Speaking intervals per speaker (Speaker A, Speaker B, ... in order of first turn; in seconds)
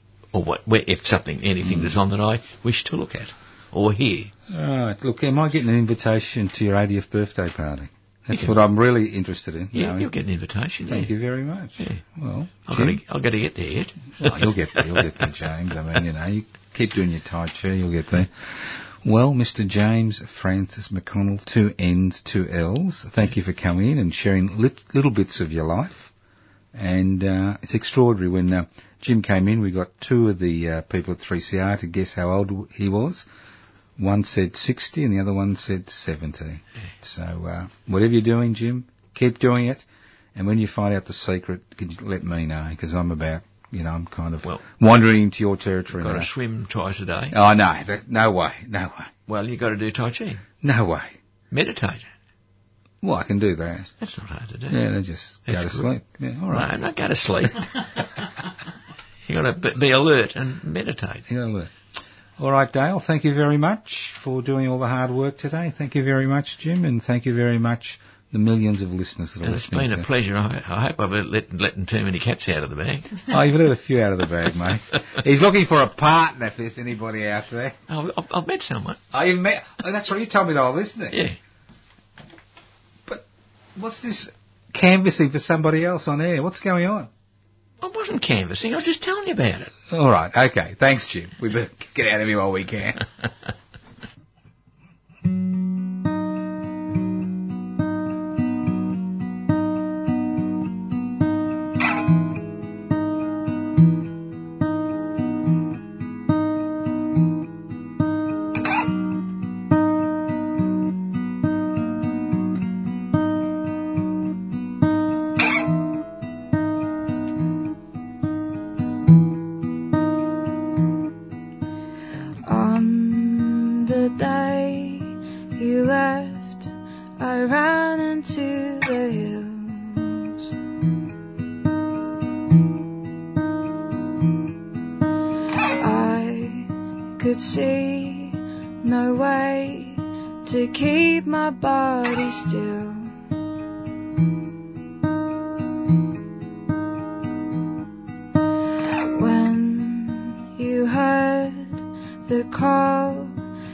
Speaker A: 0.3-4.3, 8.3-8.6, 9.7-11.1, 12.7-15.0, 45.9-47.4, 49.3-50.4, 51.5-52.1, 54.0-54.8, 55.5-55.9, 56.5-58.1, 59.3-61.3, 69.4-73.2, 77.9-79.0, 81.1-81.4, 87.8-89.7
Speaker B: 1.6-2.0, 4.5-10.1, 10.8-13.0, 14.2-26.1, 26.7-33.3, 34.0-46.3, 47.3-49.1, 50.6-51.2, 53.0-53.9, 54.7-56.7, 61.3-61.7, 62.4-70.1, 73.3-77.8, 79.1-81.2, 83.1-87.1, 89.9-93.1
Speaker C: 122.5-130.3, 135.8-143.2, 149.1-153.3